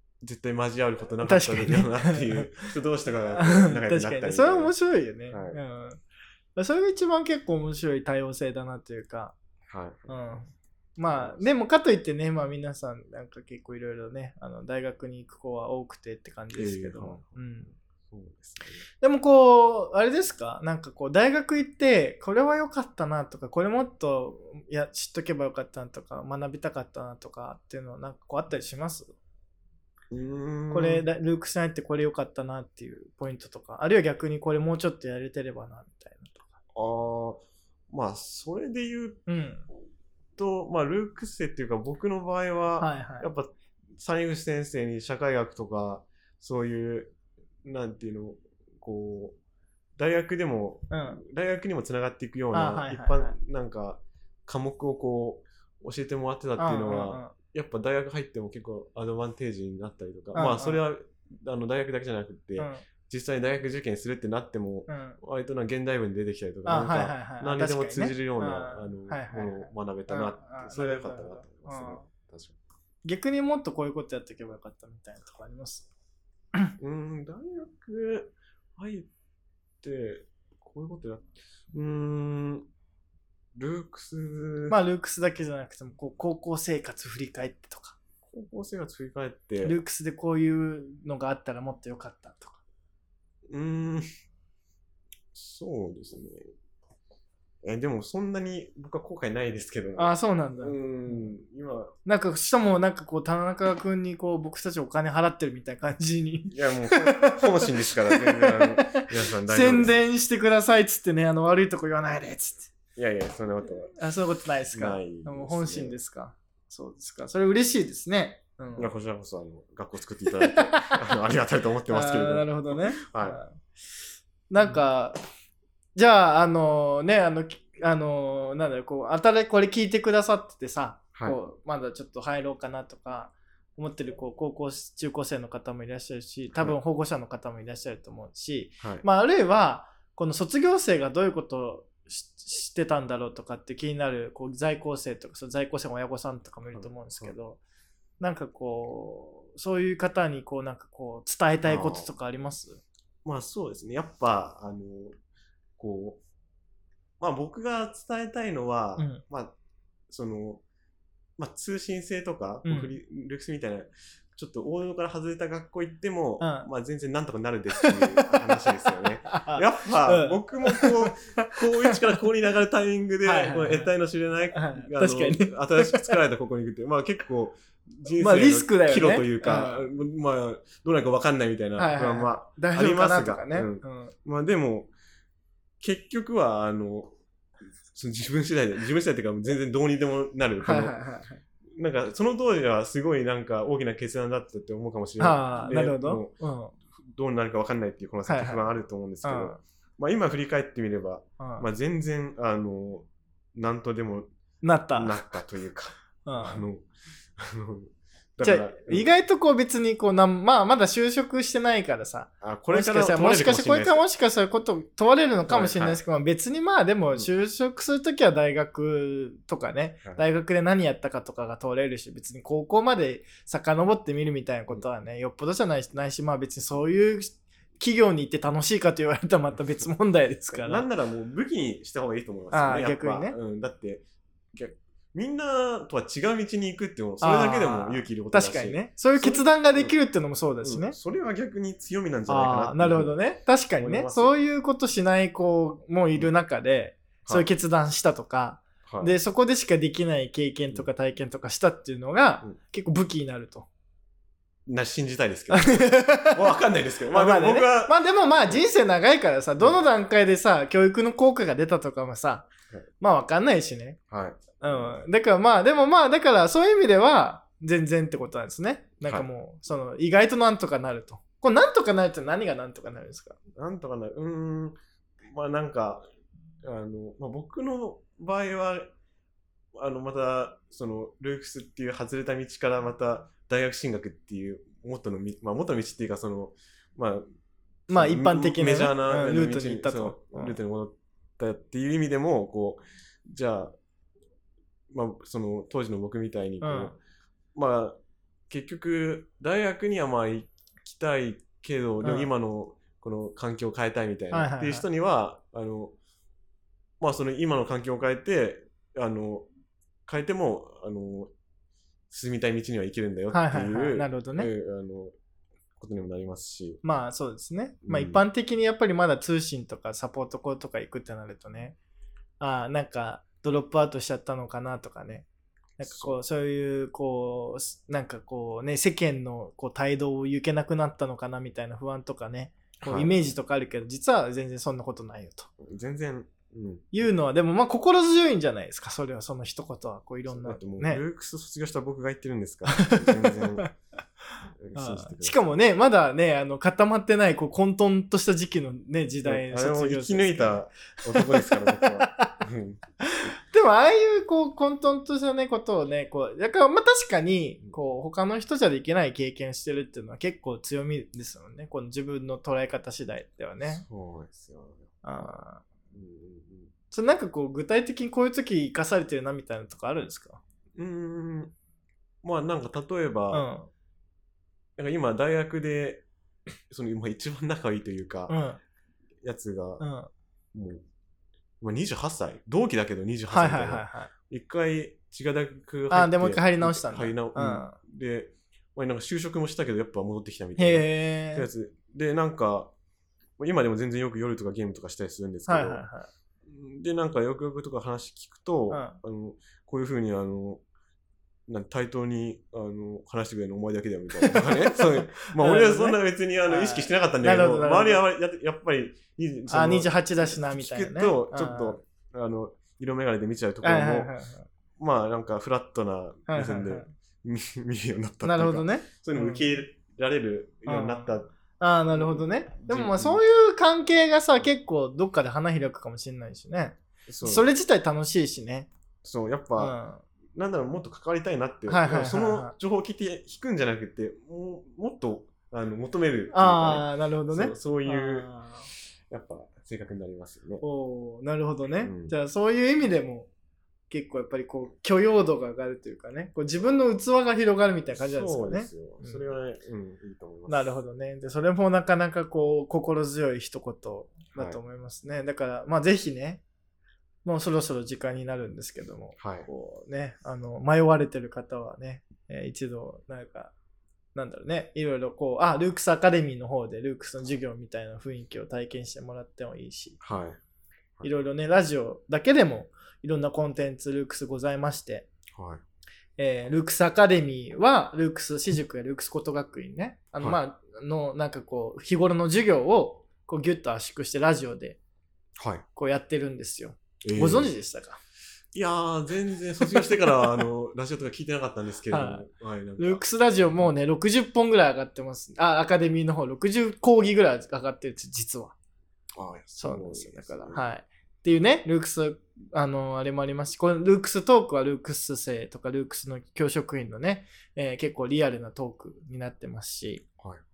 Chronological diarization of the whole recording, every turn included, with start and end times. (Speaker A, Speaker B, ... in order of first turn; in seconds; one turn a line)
Speaker A: 0.2-4.7
Speaker B: 1.2-2.7
Speaker B: 3.3-6.0
Speaker A: 5.3-5.6
Speaker B: 6.5-9.3
Speaker A: 9.7-10.2
Speaker B: 10.1-17.7
Speaker A: 11.1-11.5
Speaker A: 16.6-17.4
Speaker A: 18.1-18.8
Speaker B: 19.0-29.1
Speaker A: 30.1-31.0
Speaker B: 30.7-36.5
Speaker A: 36.7-39.2
Speaker B: 39.3-39.6
Speaker A: 40.4-49.4
Speaker B: 42.8-43.3
Speaker A: 50.0-72.6
Speaker B: 50.9-51.2
Speaker B: 52.5-53.3
Speaker B: 56.6-57.3
Speaker B: 60.3-60.8
Speaker B: 62.6-62.8
Speaker B: 64.9-65.2
Speaker B: 66.7-72.1
Speaker B: 73.0-75.9
Speaker A: 76.8-79.1
Speaker A: 79.8-82.7
Speaker A: 83.5-84.8
Speaker B: 84.7-88.0
Speaker A: 88.2-89.8
Speaker B: 89.6-92.6
Speaker A: 93.5-94.0
Speaker A: 95.3-96.5
Speaker A: 97.6-101.9
Speaker B: 100.0-101.3
Speaker B: 102.0-112.7
Speaker A: 106.5-109.9
Speaker A: 113.0-113.9
Speaker B: 114.0-118.9
Speaker A: 114.7-116.0
Speaker A: 118.8-123.4
Speaker B: 120.4-121.0
Speaker B: 121.9-123.6
Speaker B: 124.5-125.2
Speaker B: 126.0-147.6
Speaker A: 146.7-147.3
Speaker B: 148.2-152.8
Speaker A: 151.7-152.1
Speaker A: 153.2-155.2
Speaker A: 155.8-156.2
Speaker A: 157.2-159.5
Speaker B: 159.0-159.2
Speaker A: 160.1-160.6
Speaker A: 161.4-184.9
Speaker B: 162.6-162.9
Speaker B: 166.4-166.7
Speaker B: 167.8-168.7
Speaker B: 169.3-171.9
Speaker B: 173.2-173.9
Speaker B: 174.5-176.1
Speaker B: 178.2-179.9
Speaker B: 181.8-184.1
Speaker A: 185.8-187.1
Speaker A: 187.9-191.0
Speaker B: 190.6-191.4
Speaker A: 191.7-196.3
Speaker B: 195.2-196.8
Speaker A: 197.0-204.3
Speaker B: 198.3-198.6
Speaker B: 199.2-199.6
Speaker B: 201.4-201.7
Speaker B: 204.6-205.2
Speaker A: 204.9-209.1
Speaker B: 206.2-206.6
Speaker B: 208.4-230.8
Speaker A: 212.4-214.0
Speaker A: 215.5-216.0
Speaker A: 230.5-239.9
Speaker B: 232.5-233.3
Speaker B: 237.2-240.9
Speaker A: 240.6-243.1
Speaker B: 242.3-253.7
Speaker A: 243.8-244.3
Speaker A: 248.8-249.1
Speaker A: 254.7-258.6
Speaker B: 255.5-256.5
Speaker B: 257.1-264.0
Speaker A: 264.1-265.0
Speaker B: 264.6-273.4
Speaker A: 273.5-274.8
Speaker A: 275.3-276.0
Speaker A: 276.6-278.9
Speaker A: 279.7-287.3
Speaker A: 287.9-293.7
Speaker B: 287.9-290.6
Speaker A: 294.9-297.0
Speaker B: 296.6-296.9
Speaker A: 297.5-298.0
Speaker A: 298.5-305.9
Speaker B: 302.0-302.3
Speaker B: 304.3-304.9
Speaker A: 307.0-309.5
Speaker A: 310.1-311.3
Speaker A: 312.1-315.1
Speaker B: 313.3-314.5
Speaker A: 315.8-316.8
Speaker B: 316.8-321.8
Speaker A: 317.8-318.2
Speaker B: 322.4-325.2
Speaker B: 325.8-335.5
Speaker A: 325.8-326.1
Speaker A: 332.8-333.2
Speaker A: 335.6-337.1
Speaker B: 336.9-341.0
Speaker A: 340.3-343.7
Speaker B: 342.7-343.7
Speaker A: 344.6-345.4
Speaker B: 344.7-352.3
Speaker A: 349.2-353.3
Speaker B: 353.1-363.8
Speaker A: 363.6-364.9
Speaker B: 365.0-365.6
Speaker A: 365.9-366.7
Speaker B: 366.9-370.4
Speaker A: 370.8-371.5
Speaker A: 372.2-373.4
Speaker B: 373.3-373.7
Speaker A: 374.8-376.0
Speaker A: 376.7-378.3
Speaker B: 378.3-378.6
Speaker A: 379.2-379.8
Speaker B: 379.8-380.1
Speaker A: 380.5-380.8
Speaker A: 381.6-392.7
Speaker B: 383.3-384.1
Speaker B: 385.9-387.8
Speaker B: 390.6-391.4
Speaker A: 393.4-395.8
Speaker B: 395.5-396.1
Speaker A: 396.5-400.6
Speaker B: 398.7-399.0
Speaker A: 401.5-414.1
Speaker B: 404.2-408.0
Speaker B: 409.5-411.8
Speaker B: 413.6-414.5
Speaker A: 414.8-421.3
Speaker B: 416.3-416.9
Speaker B: 418.2-419.6
Speaker B: 420.7-428.7
Speaker A: 421.9-423.2
Speaker A: 427.1-427.5
Speaker A: 429.0-429.7
Speaker B: 429.6-430.0
Speaker A: 430.3-438.3
Speaker B: 431.7-432.5
Speaker B: 436.3-438.7
Speaker A: 439.1-440.6
Speaker B: 440.6-443.3
Speaker A: 441.8-442.1
Speaker B: 443.9-449.3
Speaker A: 447.9-450.7
Speaker B: 450.5-456.4
Speaker B: 457.2-463.5
Speaker A: 459.2-459.5
Speaker B: 464.1-470.0
Speaker A: 470.0-470.4
Speaker B: 471.0-475.1
Speaker A: 475.3-475.6
Speaker B: 476.2-484.8
Speaker A: 485.4-485.6
Speaker B: 485.8-488.0
Speaker A: 487.0-487.5
Speaker A: 488.5-493.0
Speaker B: 491.9-492.2
Speaker B: 492.8-498.5
Speaker A: 499.1-500.6
Speaker B: 499.6-510.0